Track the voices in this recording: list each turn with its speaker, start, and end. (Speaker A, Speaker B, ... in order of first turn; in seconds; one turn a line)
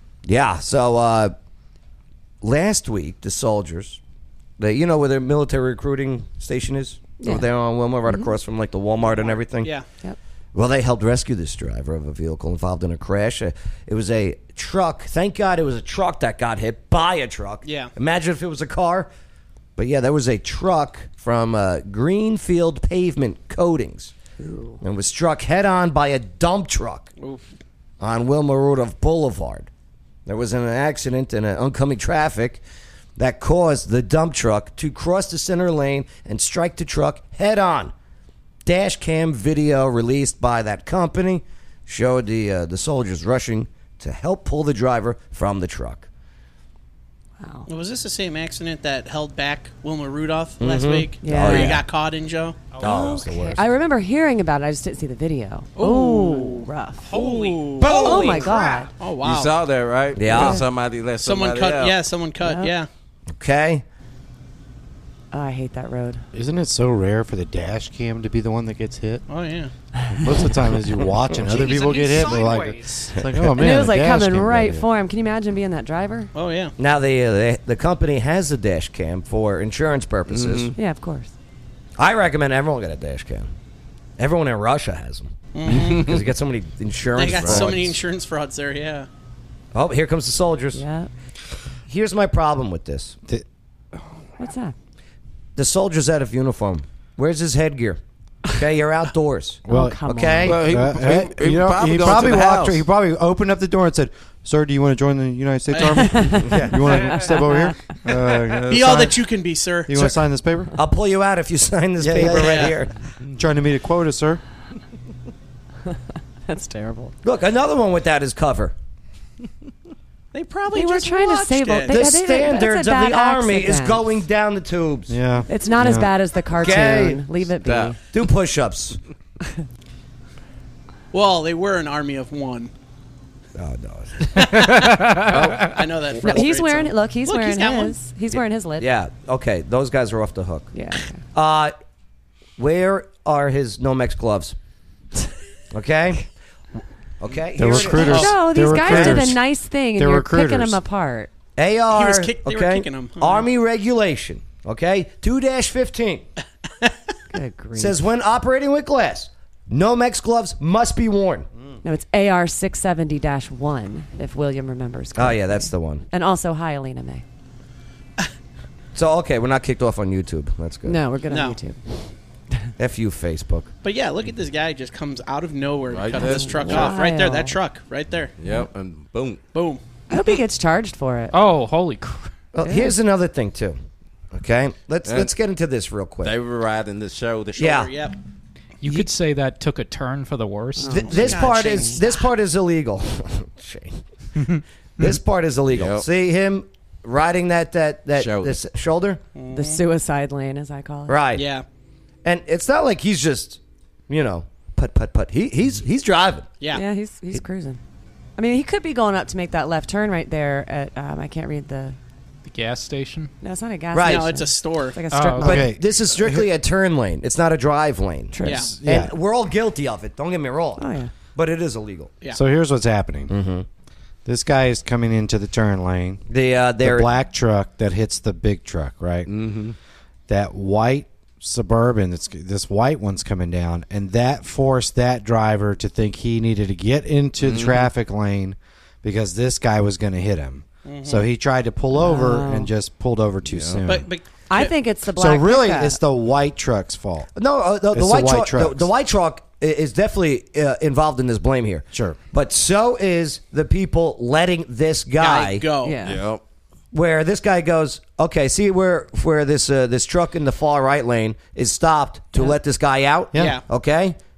Speaker A: 0.2-1.3
Speaker A: 2.4-4.0
Speaker A: 4.6-9.7
Speaker B: 7.2-7.5
Speaker B: 8.1-8.3
Speaker C: 9.0-9.9
Speaker A: 10.5-19.1
Speaker C: 17.6-17.9
Speaker A: 19.8-24.1
Speaker B: 24.4-24.8
Speaker A: 24.8-27.1
Speaker C: 27.2-27.5
Speaker A: 28.0-29.7
Speaker A: 30.3-32.6
Speaker A: 33.2-37.9
Speaker A: 38.6-46.1
Speaker B: 47.4-47.7
Speaker C: 47.7-52.6
Speaker A: 50.6-51.8
Speaker B: 51.2-51.8
Speaker A: 52.8-53.6
Speaker D: 52.9-53.1
Speaker E: 52.9-53.6
Speaker B: 53.4-57.2
Speaker C: 55.8-59.5
Speaker B: 57.8-58.9
Speaker D: 59.2-62.0
Speaker A: 60.2-60.6
Speaker B: 60.3-60.6
Speaker C: 61.2-62.9
Speaker B: 62.4-62.8
Speaker A: 63.3-63.9
Speaker B: 65.3-66.2
Speaker E: 66.3-69.2
Speaker C: 69.3-69.7
Speaker B: 70.0-70.6
Speaker E: 70.2-74.9
Speaker A: 71.3-71.7
Speaker F: 71.5-73.1
Speaker A: 73.1-73.5
Speaker B: 73.5-76.3
Speaker C: 76.3-76.7
Speaker A: 76.8-80.7
Speaker D: 80.3-80.7
Speaker B: 80.8-81.3
Speaker A: 82.0-83.5
Speaker A: 84.2-88.0
Speaker C: 85.5-86.1
Speaker C: 87.2-89.1
Speaker D: 87.4-87.8
Speaker A: 89.7-90.8
Speaker B: 90.7-91.1
Speaker A: 91.9-93.2
Speaker B: 94.4-94.7
Speaker A: 95.6-100.6
Speaker B: 99.7-100.6
Speaker E: 99.7-109.3
Speaker D: 100.5-102.8
Speaker A: 102.0-102.6
Speaker C: 105.7-106.1
Speaker B: 106.0-107.9
Speaker C: 108.7-110.1
Speaker E: 109.9-110.7
Speaker A: 110.8-112.9
Speaker E: 112.0-112.7
Speaker C: 112.3-112.7
Speaker E: 113.4-114.4
Speaker B: 116.5-117.1
Speaker A: 117.2-118.8
Speaker C: 120.3-122.1
Speaker B: 120.7-124.1
Speaker A: 121.9-125.2
Speaker E: 125.1-126.2
Speaker B: 125.5-128.0
Speaker A: 126.6-127.2
Speaker D: 127.6-128.0
Speaker A: 128.1-129.0
Speaker C: 131.1-132.7
Speaker A: 133.6-134.5
Speaker C: 134.3-138.0
Speaker A: 135.3-135.6
Speaker B: 136.2-138.9
Speaker A: 138.8-140.7
Speaker B: 140.7-141.2
Speaker A: 141.3-141.8
Speaker A: 142.6-144.6
Speaker A: 145.7-146.2
Speaker A: 147.2-149.2
Speaker E: 147.6-149.4
Speaker B: 147.8-151.3
Speaker E: 149.9-150.8
Speaker A: 151.6-156.3
Speaker C: 151.9-153.5
Speaker B: 157.3-158.1
Speaker A: 157.8-161.5
Speaker B: 161.8-167.2
Speaker A: 165.2-166.1
Speaker A: 168.9-171.0
Speaker B: 170.8-171.8
Speaker C: 171.3-171.6
Speaker A: 172.8-173.7
Speaker C: 173.8-178.3
Speaker D: 175.9-177.0
Speaker B: 176.2-177.6
Speaker D: 178.4-179.4
Speaker C: 179.5-179.8
Speaker B: 180.1-181.4
Speaker F: 181.3-182.3
Speaker A: 182.5-183.8
Speaker B: 182.6-183.0
Speaker A: 184.3-186.3
Speaker D: 185.1-185.3
Speaker D: 186.2-187.8
Speaker C: 187.6-188.2
Speaker A: 187.6-187.9
Speaker F: 188.8-191.1
Speaker B: 190.8-192.0
Speaker A: 190.9-194.0
Speaker C: 191.1-192.2
Speaker A: 195.0-199.2
Speaker D: 195.7-196.1
Speaker D: 198.2-198.6
Speaker C: 199.4-199.8
Speaker B: 199.5-201.2
Speaker A: 201.1-201.5
Speaker C: 201.3-201.7
Speaker A: 202.2-206.5
Speaker B: 206.7-207.8
Speaker B: 208.4-212.0
Speaker F: 212.5-213.3
Speaker B: 213.4-215.7
Speaker A: 213.9-214.3
Speaker C: 214.0-215.1
Speaker F: 215.1-215.6
Speaker E: 215.4-216.5
Speaker A: 215.4-222.1
Speaker B: 218.3-218.7
Speaker E: 218.4-219.1
Speaker C: 218.4-218.7
Speaker B: 220.8-221.1
Speaker E: 222.3-223.3
Speaker A: 223.3-223.7
Speaker E: 224.2-226.2
Speaker A: 226.3-227.1
Speaker E: 226.8-229.3
Speaker D: 229.3-229.8
Speaker E: 230.3-244.1
Speaker D: 237.4-237.9
Speaker C: 240.8-241.3
Speaker B: 241.9-242.7
Speaker D: 243.5-243.8
Speaker C: 243.8-244.8
Speaker B: 244.5-246.0
Speaker E: 245.1-247.3
Speaker A: 247.3-255.7
Speaker E: 247.9-248.9
Speaker E: 251.9-252.2
Speaker C: 255.2-256.0
Speaker B: 255.8-256.2
Speaker D: 256.0-256.4
Speaker A: 256.9-264.2
Speaker C: 263.4-263.6